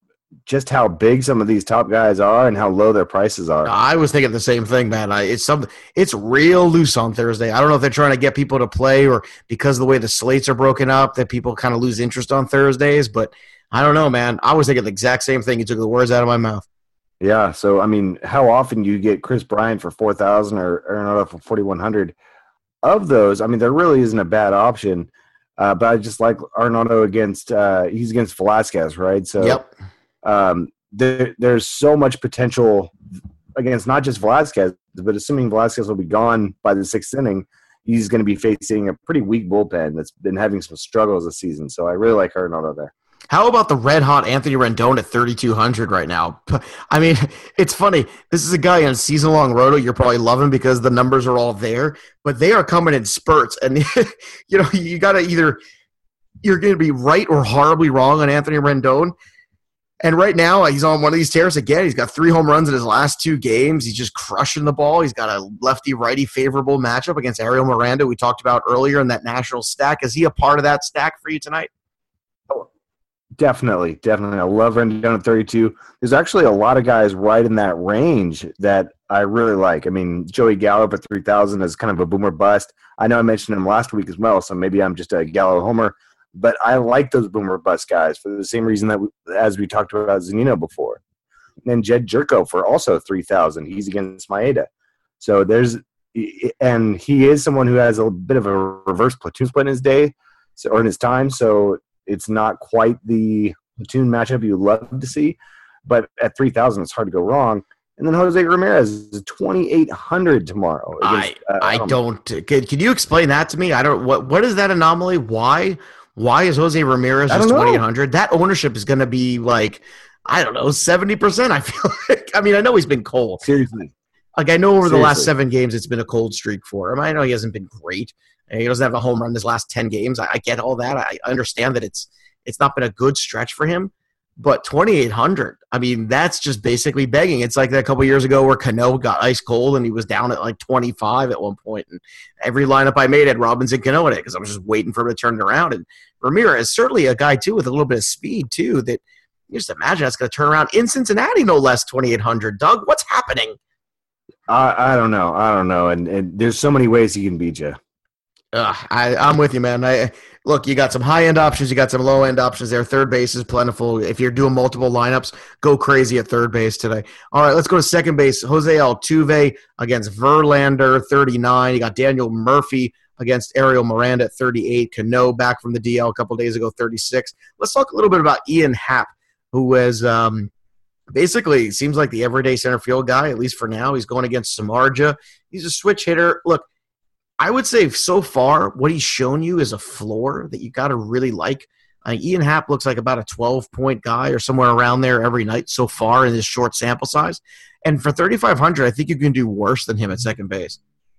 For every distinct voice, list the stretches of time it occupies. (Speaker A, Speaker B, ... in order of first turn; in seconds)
Speaker A: 0.5-3.7, 17.2-22.1, 22.8-29.6, 30.2-32.9, 33.5-42.9, 73.4-91.0, 91.6-94.7, 95.2-112.0, 117.3-117.8, 123.4-123.9, 124.8-125.3, 154.5-157.8
Speaker B: 3.6-16.6, 29.4-29.7, 43.3-55.6, 56.4-59.1, 60.0-71.7, 111.0-123.5, 124.4-153.6, 158.5-180.5, 181.1-186.7, 187.4-200.8